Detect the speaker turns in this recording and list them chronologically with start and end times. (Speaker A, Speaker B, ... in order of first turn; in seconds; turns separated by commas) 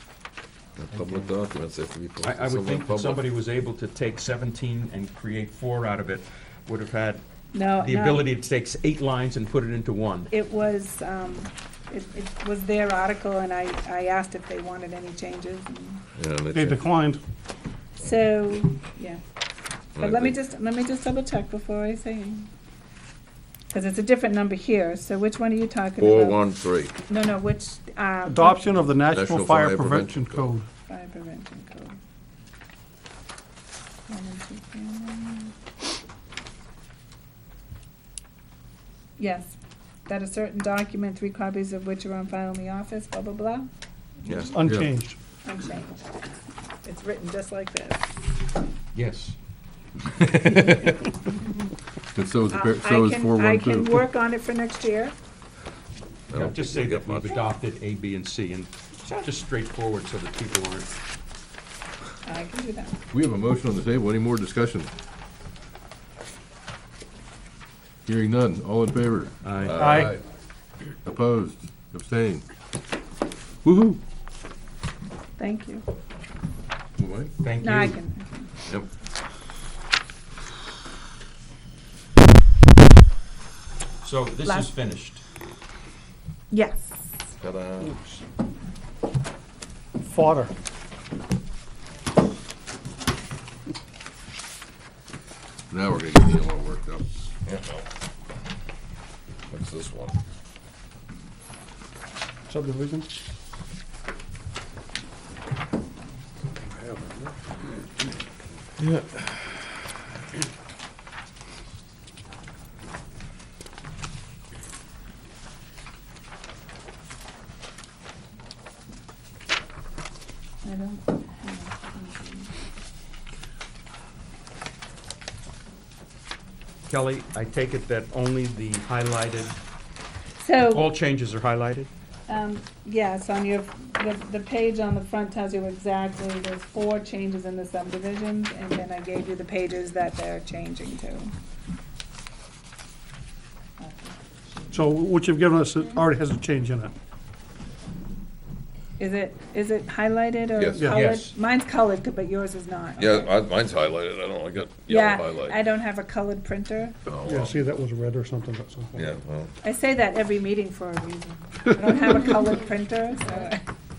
Speaker A: 0.8-3.2, Speaker B: 0.9-1.3, Speaker B: 2.2-7.2, Speaker C: 7.5-8.3, Speaker B: 7.8-10.3, Speaker C: 10.3-16.0, Speaker A: 16.1-16.8, Speaker D: 16.5-17.2, Speaker C: 18.0-19.2, Speaker A: 19.9-20.4, Speaker C: 19.9-22.5, Speaker C: 23.7-26.5, Speaker A: 26.0-27.0, Speaker C: 27.1-28.8, Speaker D: 28.2-30.7, Speaker A: 29.1-30.5, Speaker C: 30.9-31.9, Speaker C: 34.1-35.5, Speaker C: 39.2-39.5, Speaker C: 40.1-43.7, Speaker C: 44.2-44.6, Speaker B: 44.2-44.6, Speaker D: 44.5-45.2, Speaker C: 45.4-46.1, Speaker C: 46.8-48.1, Speaker B: 48.9-49.4, Speaker E: 52.1-54.0, Speaker C: 52.5-55.1, Speaker A: 56.3-57.4, Speaker B: 56.3-61.0, Speaker C: 62.2-63.0, Speaker E: 63.1-64.9, Speaker E: 68.0-70.2, Speaker B: 69.4-69.8, Speaker A: 69.6-70.1, Speaker D: 69.8-70.1, Speaker E: 71.0-72.4, Speaker E: 73.6-74.0, Speaker C: 75.4-75.8, Speaker E: 77.0-77.3, Speaker B: 77.4-78.0, Speaker C: 77.6-78.5, Speaker B: 84.0-85.2, Speaker C: 84.5-84.7, Speaker C: 86.5-87.3, Speaker A: 87.4-87.9, Speaker D: 90.0-90.5, Speaker E: 95.7-97.0, Speaker A: 97.5-97.8, Speaker A: 99.5-100.2, Speaker D: 102.5-103.1, Speaker E: 106.6-107.3, Speaker A: 108.8-109.5, Speaker C: 120.6-122.5, Speaker B: 126.9-129.6, Speaker C: 130.4-130.9, Speaker B: 130.7-131.9, Speaker C: 132.3-141.3, Speaker C: 143.8-144.7, Speaker D: 144.7-146.9, Speaker C: 149.0-153.4, Speaker A: 150.6-151.0, Speaker D: 150.7-151.1, Speaker B: 150.9-151.3, Speaker A: 153.0-155.6, Speaker C: 154.8-157.0, Speaker A: 157.1-157.6, Speaker D: 157.2-159.1, Speaker A: 158.9-159.5, Speaker C: 159.6-163.6